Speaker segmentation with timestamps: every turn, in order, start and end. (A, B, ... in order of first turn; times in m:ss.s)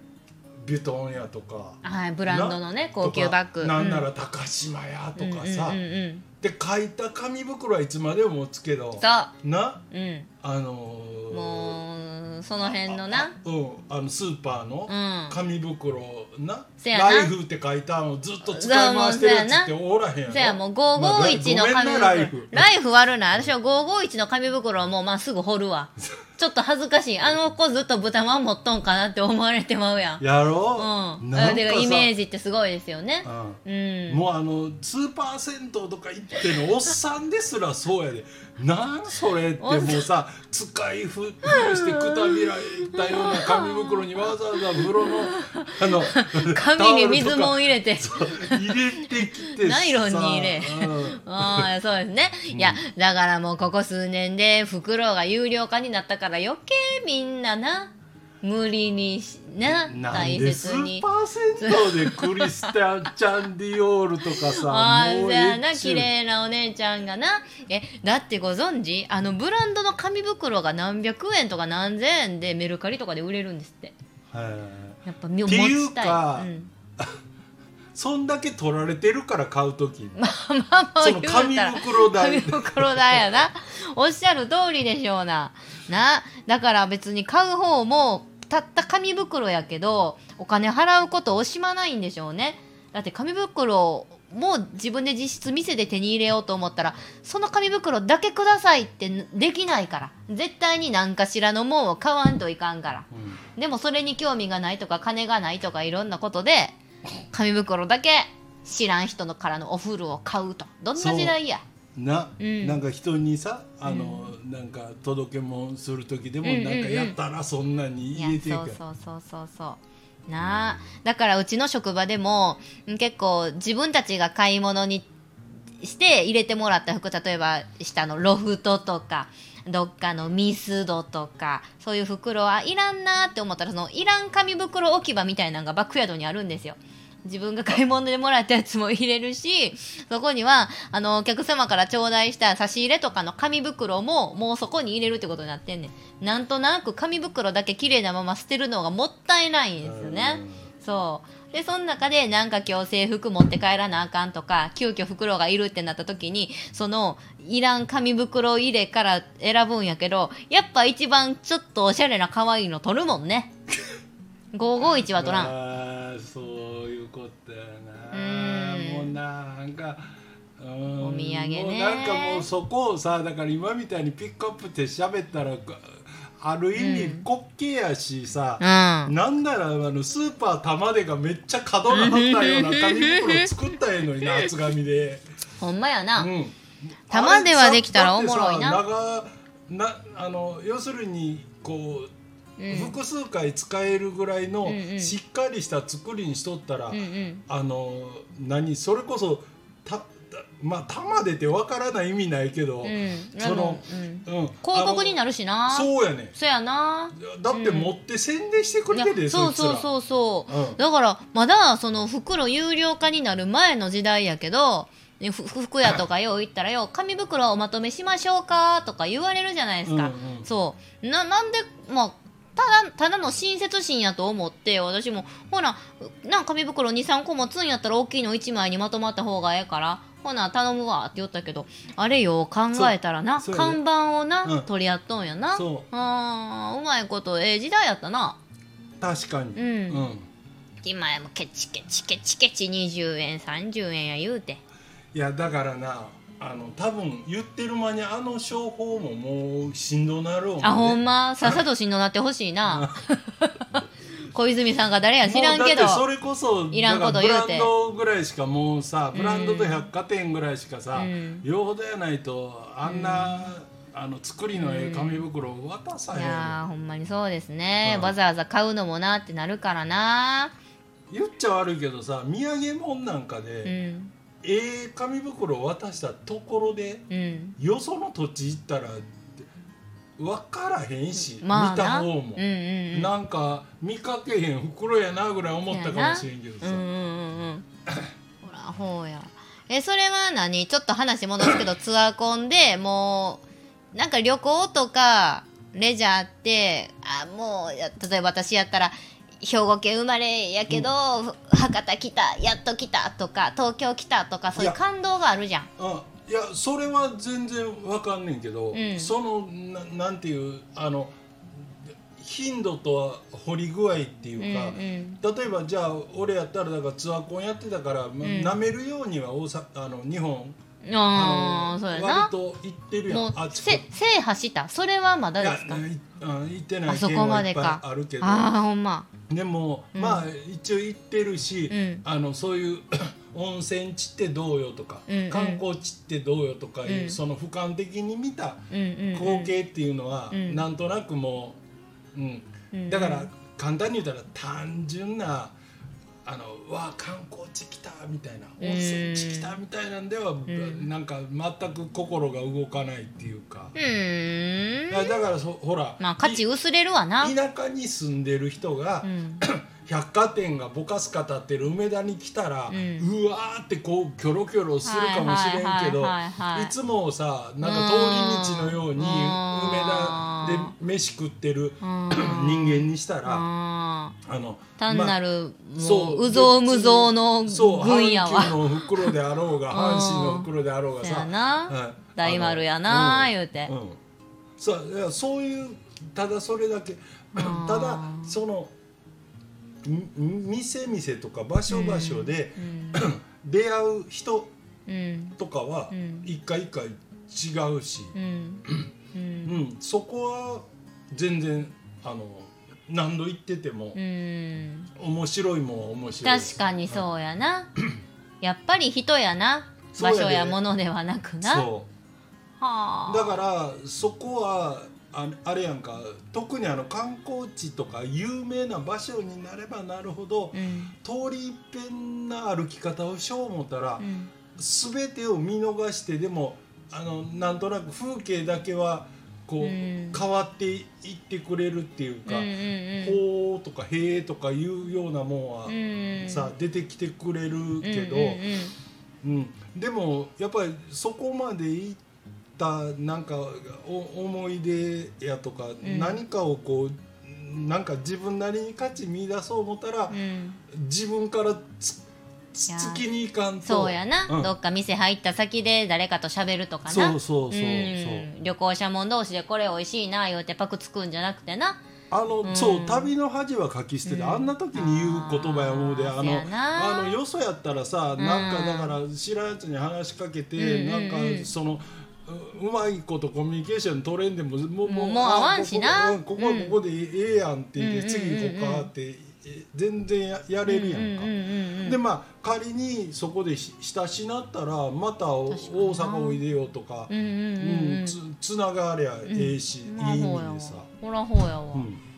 0:00.6-0:05.8 A
0:01.8-0:04.1 B
0:05.2-0:06.2 B
0:06.4-0:09.8 A
0:09.0-0:09.3 B
0:09.9-0:10.3 B
0:10.4-0:11.8 A
0:11.3-0:13.3 B
0:12.6-0:22.7 A
0:14.9-0:15.4 B
0:16.8-0:17.3 B
0:18.4-0:19.7 B
0:20.3-0:30.2 B
0:30.2-0:32.1 A
0:30.8-0:34.2 B
0:33.2-0:51.7 A
0:39.6-0:40.0 B
0:41.4-1:01.0 B
0:52.5-0:52.8 A
0:59.7-1:06.1 A
1:01.6-1:02.7 B
1:04.4-1:13.9 B
1:14.3-1:17.2 A
1:15.0-1:16.7 B
1:17.9-1:20.2 A
1:20.2-1:46.8 B
1:21.0-1:23.4 A
1:43.1-1:43.4 A
1:47.3-1:51.6 B
1:50.9-1:51.4 A
1:51.9-1:58.8 A
1:52.4-1:52.8 B
1:53.8-1:54.3 B
1:56.4-1:57.2 B
1:58.1-2:05.1 B
2:00.4-2:00.8 A
2:05.8-2:43.5 B
2:29.8-2:30.7 A
2:44.5-2:45.5 B
2:45.1-3:05.2 A
2:48.1-2:49.2 B
2:51.0-2:52.5 B
2:56.8-2:57.3 B
2:58.6-2:59.1 B
3:01.9-3:03.5 B
3:05.6-3:06.3 B
3:06.2-3:12.1 A
3:07.1-3:08.8 B
3:12.6-3:13.0 B
3:12.7-3:26.3 A
3:14.6-3:15.1 B
3:16.9-3:17.4 B
3:22.8-3:27.9 B
3:27.1-3:29.9 A
3:28.9-3:58.4 B
3:30.5-3:30.8 A
3:39.8-3:40.5 A
3:52.7-3:53.8 A
3:54.4-3:54.7 A
3:55.5-3:55.8 A
3:59.0-4:00.3 A
3:59.6-4:00.0 B
4:00.8-4:04.6 B
4:05.1-4:11.6 A
4:10.6-4:13.7 B
4:12.6-4:13.0 A
4:14.3-4:16.0 B
4:15.2-4:26.6 A
4:16.7-4:17.7 B
4:19.1-4:19.9 B
4:20.9-4:21.4 B
4:22.8-4:23.5 B
4:24.5-4:25.2 B
4:26.1-4:30.5 B
4:27.8-4:28.1 A
4:31.1-4:33.8 A
4:33.6-4:34.1 B
4:34.4-4:37.0 A
4:37.1-4:37.6 B
4:37.6-4:39.4 A
4:40.2-4:46.8 A
4:41.3-4:43.1 B
4:45.7-4:47.6 B
4:48.4-5:05.7 B
5:05.8-5:11.1 A
5:08.7-5:09.1 B
5:12.1-5:20.6 A
5:14.4-5:15.2 B
5:18.2-5:18.5 B
5:20.8-5:22.3 B
5:21.1-5:23.8 A
5:23.1-5:25.8 B
5:25.4-5:28.5 A
5:26.9-5:29.1 B
5:29.3-5:41.6 A
5:29.9-5:30.2 B
5:31.7-5:32.0 B
5:35.1-5:35.6 B
5:36.8-5:37.2 B
5:38.7-5:39.5 B
5:40.3-5:40.6 B
5:42.1-5:45.6 A
5:42.7-5:43.3 B
5:46.2-5:53.7 A
5:48.6-5:49.6 B
5:50.5-5:50.9 B
5:53.7-5:55.2 B
5:54.9-5:56.4 A
5:56.0-5:57.3 B
5:57.2-6:13.4 A
5:59.0-5:59.4 B
6:02.7-6:03.1 B
6:04.8-6:06.7 B
6:07.6-6:10.7 B
6:11.8-6:14.2 B
6:14.2-6:15.2 A
6:14.8-6:19.1 B
6:15.8-6:24.0 A
6:19.7-6:20.5 B
6:21.0-6:23.7 B
6:24.6-6:28.7 A
6:27.3-6:28.4 B
6:29.8-6:34.5 A
6:31.7-6:33.1 B
6:34.9-6:35.4 B
6:35.4-6:38.1 A
6:35.9-6:36.3 B
6:38.1-6:39.6 B
6:39.4-6:44.0 A
6:43.9-6:44.9 B
6:45.0-6:47.0 A
6:46.2-6:47.7 B
6:48.4-6:51.7 B
6:49.9-6:50.6 A
6:51.4-6:51.9 A
6:52.6-6:53.4 B
6:53.1-7:18.4 A
7:00.5-7:00.9 B
7:04.0-7:04.3 B
7:09.6-7:10.2 B
7:12.2-7:13.2 B
7:15.7-7:16.5 B
7:17.8-7:18.7 B
7:19.2-7:22.0 A
7:22.6-7:32.0 A
7:25.8-7:26.2 B
7:30.1-7:30.6 B
7:32.5-7:34.5 A
7:32.7-7:33.0 B
7:33.6-7:41.8 B
7:36.9-7:38.3 A
7:42.1-8:10.9 A
7:42.4-7:43.1 B
7:44.0-7:47.2 B
7:48.2-7:49.0 B
7:50.6-7:51.5 B
7:54.8-7:56.8 B
7:57.8-7:58.9 B
8:00.6-8:02.0 B
8:05.5-8:06.4 B
8:07.1-8:08.2 B
8:09.2-8:11.9 B
8:11.7-8:12.0 A